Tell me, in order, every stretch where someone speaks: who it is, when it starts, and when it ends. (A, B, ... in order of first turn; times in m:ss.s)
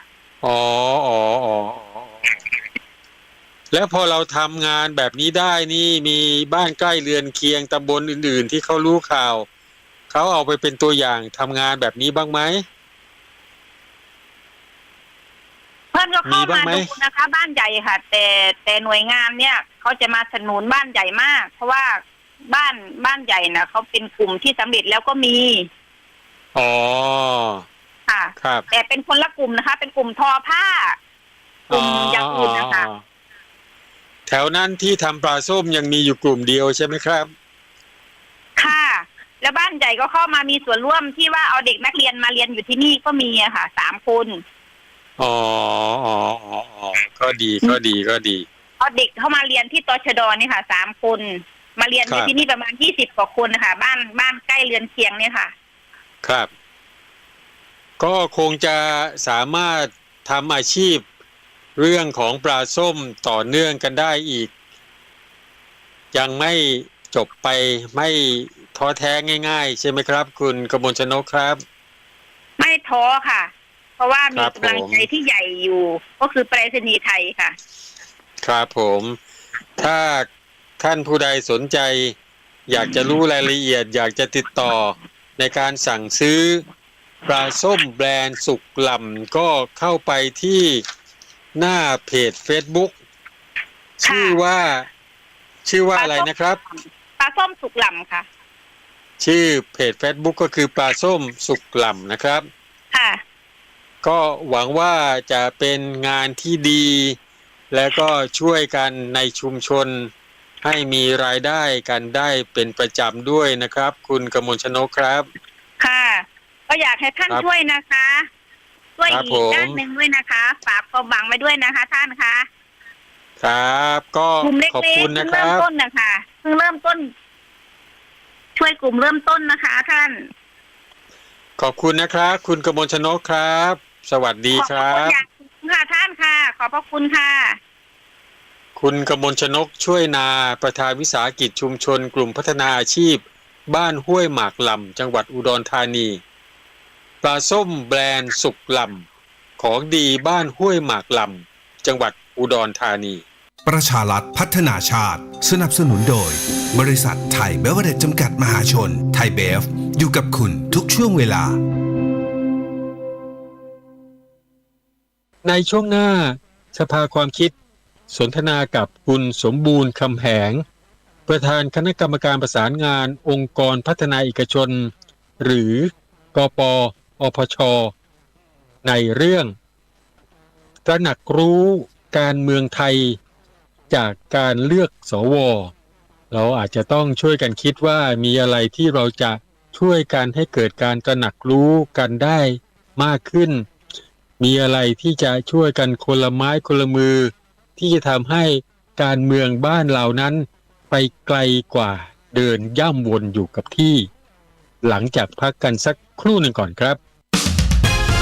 0:00.4-0:02.3 A
0:03.7-0:09.5 A
0:10.1-0:12.6 A
0:15.9-0:25.7 B
0:16.2-0:16.9 A
0:26.5-0:27.6 A
0:28.1-0:31.0 B
0:28.4-0:28.6 A
0:31.7-0:33.0 A
0:31.7-0:32.9 B
0:34.3-0:37.3 A
0:38.6-0:44.4 B
0:45.2-0:48.4 A
0:48.8-0:55.5 B
0:52.1-0:52.3 A
0:56.2-0:56.5 A
0:58.0-1:01.0 A
1:01.8-1:04.5 A
1:06.1-1:11.6 A
1:12.6-1:17.6 B
1:14.3-1:15.0 A
1:18.4-1:19.2 A
1:19.8-1:20.3 A
1:20.8-1:22.2 A
1:22.7-1:26.6 A
1:27.3-1:30.8 A
1:31.6-1:32.9 A
1:34.0-1:34.9 A
1:34.0-1:34.4 B
1:35.6-1:36.6 A
1:36.0-1:38.2 B
1:39.2-1:42.5 A
1:42.9-1:43.2 B
1:44.0-1:47.2 A
1:47.7-1:50.1 A
1:50.6-1:55.3 A
1:55.8-1:58.3 B
1:59.0-2:02.5 B
1:59.1-1:59.8 A
2:03.4-2:05.6 A
2:04.4-2:07.1 B
2:08.6-2:10.3 B
2:11.6-2:15.2 A
2:14.5-2:17.6 B
2:18.8-2:26.2 A
2:27.2-2:29.0 A
2:29.6-2:33.2 A
2:33.6-2:41.5 C
2:45.4-2:47.5 A
2:48.1-2:50.6 A
2:51.3-2:57.9 A
2:58.8-2:59.5 A
3:00.8-3:03.2 A
3:03.9-3:05.7 A
3:06.3-3:13.7 A
3:14.4-3:24.1 A
3:24.8-3:27.0 A